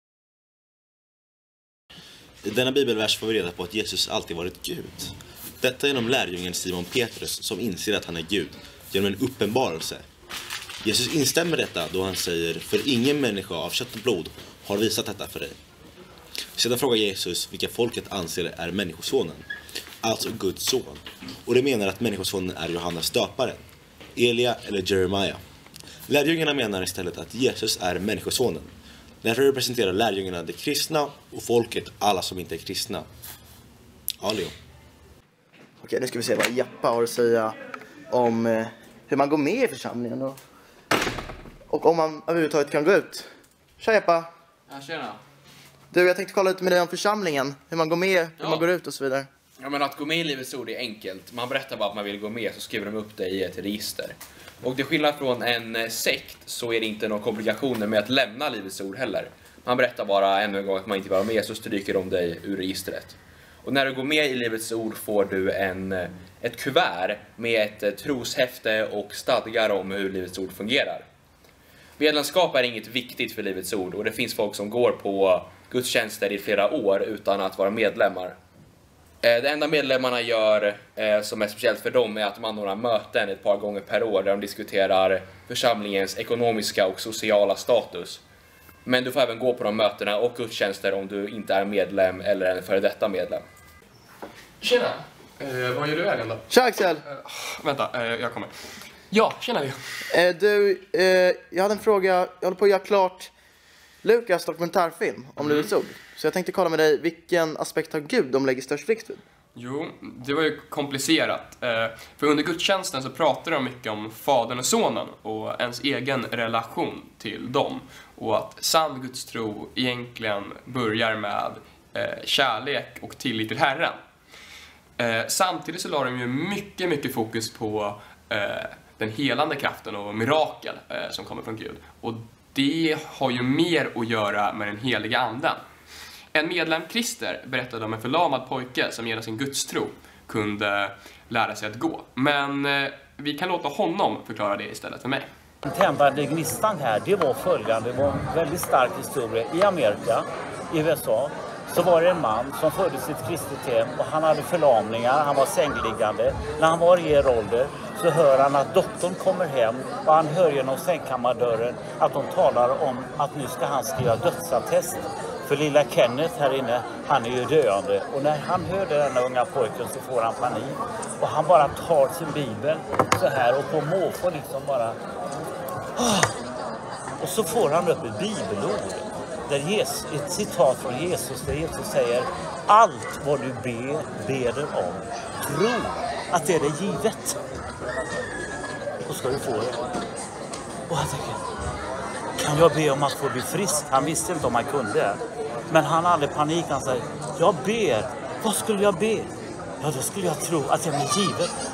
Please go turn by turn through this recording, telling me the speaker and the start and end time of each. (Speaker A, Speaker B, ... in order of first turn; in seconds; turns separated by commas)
Speaker A: 2.4-10.0, Speaker A: 10.8-15.6, Speaker A: 16.6-19.5, Speaker A: 20.0-23.6, Speaker A: 24.1-25.4, Speaker A: 26.1-28.7, Speaker A: 29.2-33.1, Speaker A: 34.2-34.5, Speaker B: 35.8-37.5, Speaker B: 38.1-40.4, Speaker B: 41.7-43.3, Speaker B: 43.8-44.3, Speaker C: 44.7-45.2, Speaker B: 45.9-49.3, Speaker C: 48.4-48.6, Speaker C: 49.6-71.0, Speaker C: 72.0-78.4, Speaker C: 79.2-88.2, Speaker C: 88.8-93.4, Speaker D: 94.6-96.4, Speaker B: 96.5-97.0, Speaker D: 97.0-98.5, Speaker D: 99.1-99.8, Speaker B: 100.1-103.3, Speaker B: 104.0-109.2, Speaker D: 109.5-124.0, Speaker D: 125.0-135.6, Speaker D: 136.3-145.3, Speaker E: 145.6-175.0, Speaker E: 175.9-176.3, Speaker E: 177.2-187.4, Speaker E: 189.0-189.8, Speaker E: 190.9-191.4, Speaker E: 192.4-195.2, Speaker E: 195.7-201.5